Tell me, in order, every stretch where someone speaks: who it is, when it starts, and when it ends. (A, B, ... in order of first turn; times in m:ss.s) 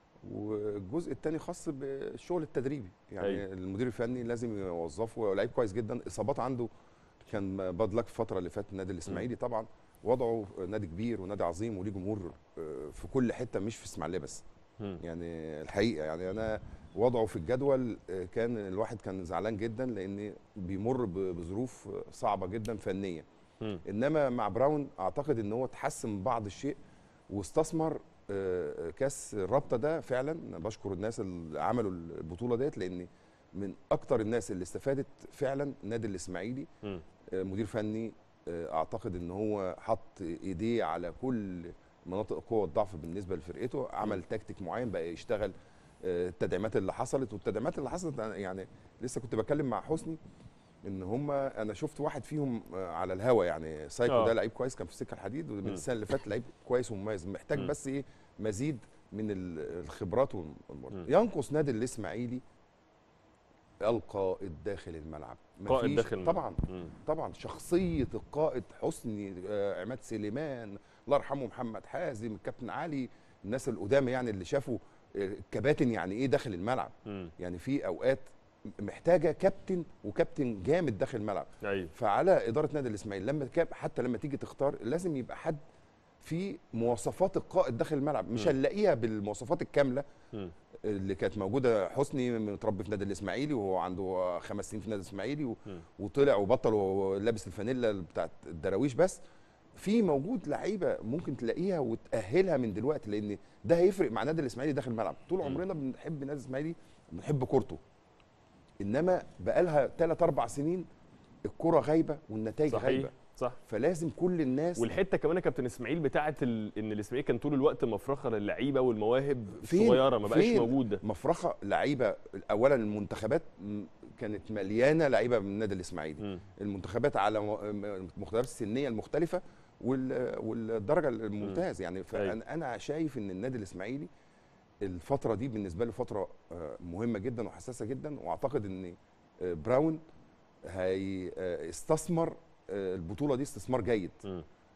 0:00.2-0:06.7 A
0:07.2-0:14.4 A
0:15.0-0:23.3 A
0:23.8-0:26.8 A
0:27.3-0:36.7 A
0:37.3-0:50.2 A
0:50.8-1:02.4 A
0:54.1-0:54.4 B
1:03.8-1:18.3 A
1:05.7-1:06.9 B
1:17.1-1:17.3 B
1:18.8-1:25.6 A
1:21.6-1:21.9 B
1:26.2-1:30.0 A
1:30.8-1:39.2 A
1:39.8-1:47.8 A
1:48.8-1:50.9 A
1:51.5-1:53.1 A
1:52.7-1:53.6 B
1:53.7-1:54.8 A
1:54.8-2:01.0 B
1:59.6-2:14.1 A
2:14.8-2:20.0 A
2:20.7-2:24.3 A